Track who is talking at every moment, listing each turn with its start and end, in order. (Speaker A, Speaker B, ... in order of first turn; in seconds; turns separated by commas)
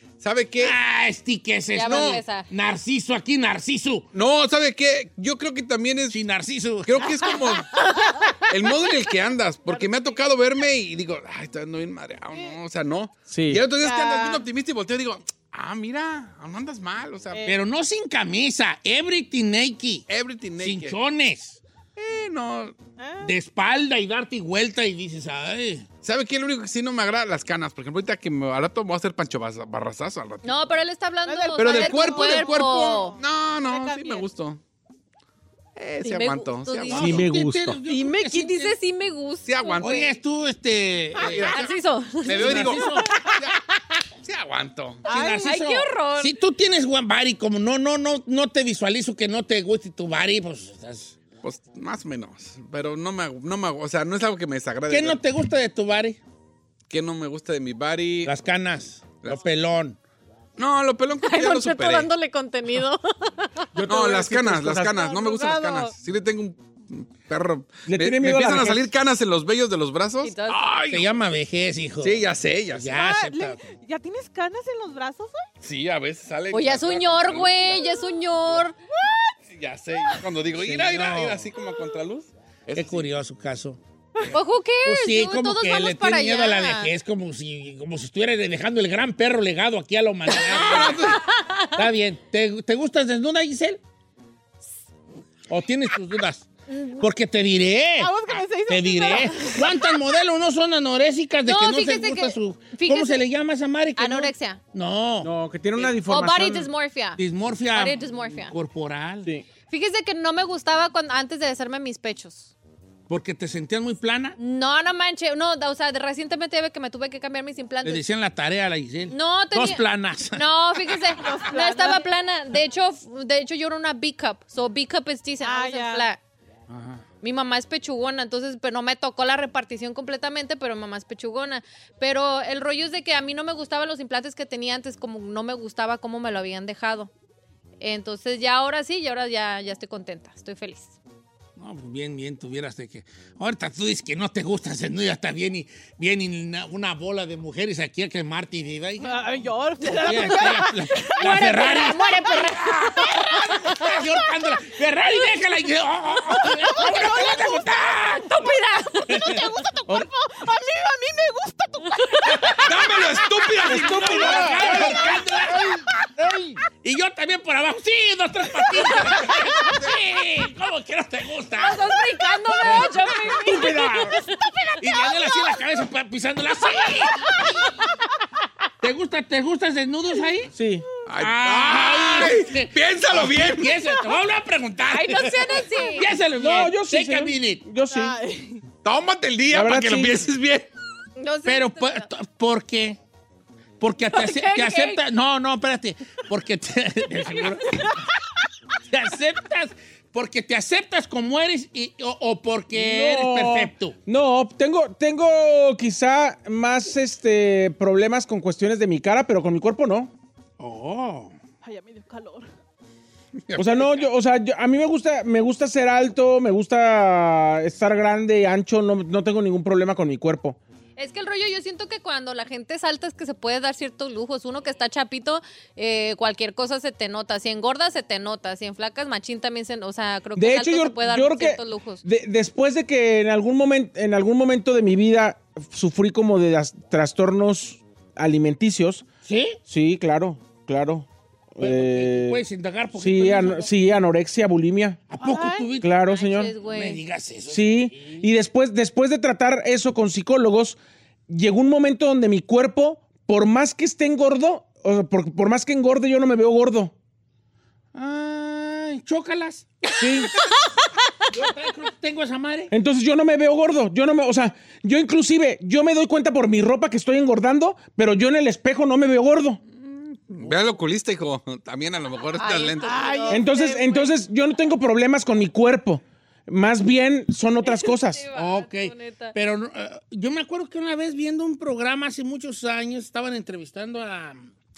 Speaker A: 0.2-0.8, Speaker B: 0.6-4.1, Speaker C: 1.7-2.5, Speaker A: 4.1-6.2, Speaker B: 6.1-7.2, Speaker A: 6.8-7.9, Speaker D: 7.7-8.3, Speaker A: 8.5-17.4, Speaker D: 9.7-10.2, Speaker D: 12.3-12.6, Speaker E: 13.3-13.6, Speaker D: 13.8-14.5, Speaker D: 17.3-17.6, Speaker B: 17.5-21.6, Speaker A: 20.1-21.0, Speaker A: 22.0-22.8, Speaker D: 23.0-23.3, Speaker B: 23.2-25.9, Speaker A: 26.0-30.7, Speaker C: 30.4-33.2, Speaker D: 31.3-34.3, Speaker A: 31.6-34.6, Speaker A: 35.8-37.2, Speaker C: 36.0-37.2, Speaker B: 36.9-38.8, Speaker E: 37.0-37.8, Speaker C: 37.9-40.1, Speaker A: 39.5-40.1, Speaker B: 39.8-41.6, Speaker A: 41.2-41.7, Speaker C: 41.3-42.9, Speaker B: 42.2-43.1, Speaker A: 42.2-43.6, Speaker A: 44.2-45.0, Speaker D: 45.1-45.6, Speaker B: 45.1-51.2, Speaker C: 45.2-46.4, Speaker A: 51.4-55.2, Speaker B: 54.9-56.2, Speaker A: 56.9-58.4, Speaker B: 58.2-60.0, Speaker A: 60.6-62.1, Speaker C: 61.2-63.7, Speaker E: 63.7-65.1, Speaker A: 63.9-71.1, Speaker D: 64.9-65.9, Speaker E: 67.9-68.9, Speaker C: 70.2-70.7, Speaker B: 70.9-73.6, Speaker A: 72.0-73.0, Speaker D: 72.9-75.5, Speaker A: 75.6-77.9, Speaker C: 76.5-78.8, Speaker D: 79.0-79.3, Speaker A: 79.5-83.1, Speaker B: 80.6-81.5, Speaker B: 82.8-83.8, Speaker C: 84.3-86.9, Speaker B: 84.8-91.2, Speaker A: 90.5-91.2, Speaker C: 90.6-91.7, Speaker B: 91.7-93.8, Speaker B: 95.5-98.1, Speaker C: 96.7-97.0, Speaker D: 98.0-99.7, Speaker B: 98.7-105.9, Speaker C: 101.5-103.2, Speaker C: 104.0-104.6, Speaker E: 105.2-106.7, Speaker C: 106.0-107.2, Speaker B: 107.2-109.3, Speaker C: 107.7-108.5, Speaker C: 109.7-112.5, Speaker B: 113.1-114.4, Speaker C: 114.4-118.0, Speaker B: 117.8-120.4, Speaker C: 119.1-126.2, Speaker D: 121.2-122.1, Speaker D: 125.4-126.1, Speaker B: 126.7-127.0, Speaker C: 127.2-137.1, Speaker C: 137.8-140.9, Speaker B: 141.6-149.2, Speaker D: 149.0-152.3, Speaker B: 149.8-158.3, Speaker C: 151.2-152.7, Speaker D: 156.4-158.0, Speaker C: 158.2-159.3, Speaker B: 159.1-160.1, Speaker D: 159.1-165.9, Speaker B: 162.3-163.0, Speaker A: 162.6-165.0, Speaker B: 163.7-165.8, Speaker E: 163.7-164.9, Speaker B: 166.7-172.0, Speaker C: 171.6-174.7, Speaker B: 172.6-172.9, Speaker E: 173.4-174.2, Speaker B: 174.8-177.8, Speaker B: 178.8-180.5, Speaker E: 180.5-180.8, Speaker A: 181.1-183.8, Speaker B: 181.2-187.6, Speaker C: 184.9-186.1, Speaker E: 186.3-188.1, Speaker D: 187.9-188.6, Speaker A: 188.8-190.7, Speaker E: 189.5-190.3, Speaker C: 191.2-192.1, Speaker B: 191.4-193.0, Speaker B: 193.8-197.9, Speaker C: 194.1-195.0, Speaker B: 198.9-204.0, Speaker E: 202.7-210.1, Speaker B: 210.6-211.3, Speaker D: 211.6-212.5, Speaker A: 213.4-214.1, Speaker E: 213.6-220.6, Speaker C: 221.0-232.0, Speaker E: 230.4-239.1, Speaker B: 239.2-239.6, Speaker E: 239.7-242.4, Speaker B: 241.6-243.7, Speaker E: 242.9-245.0, Speaker B: 245.1-245.9, Speaker D: 245.2-245.7, Speaker E: 245.8-246.5, Speaker C: 246.1-247.0, Speaker B: 246.6-248.3, Speaker E: 247.5-250.8, Speaker E: 251.3-256.9, Speaker B: 257.9-259.9, Speaker E: 260.0-260.3, Speaker B: 261.3-262.7, Speaker E: 262.7-269.6, Speaker A: 269.8-273.1, Speaker C: 272.4-273.4, Speaker D: 272.8-274.1, Speaker E: 273.3-278.3, Speaker C: 277.6-279.4, Speaker B: 278.3-284.5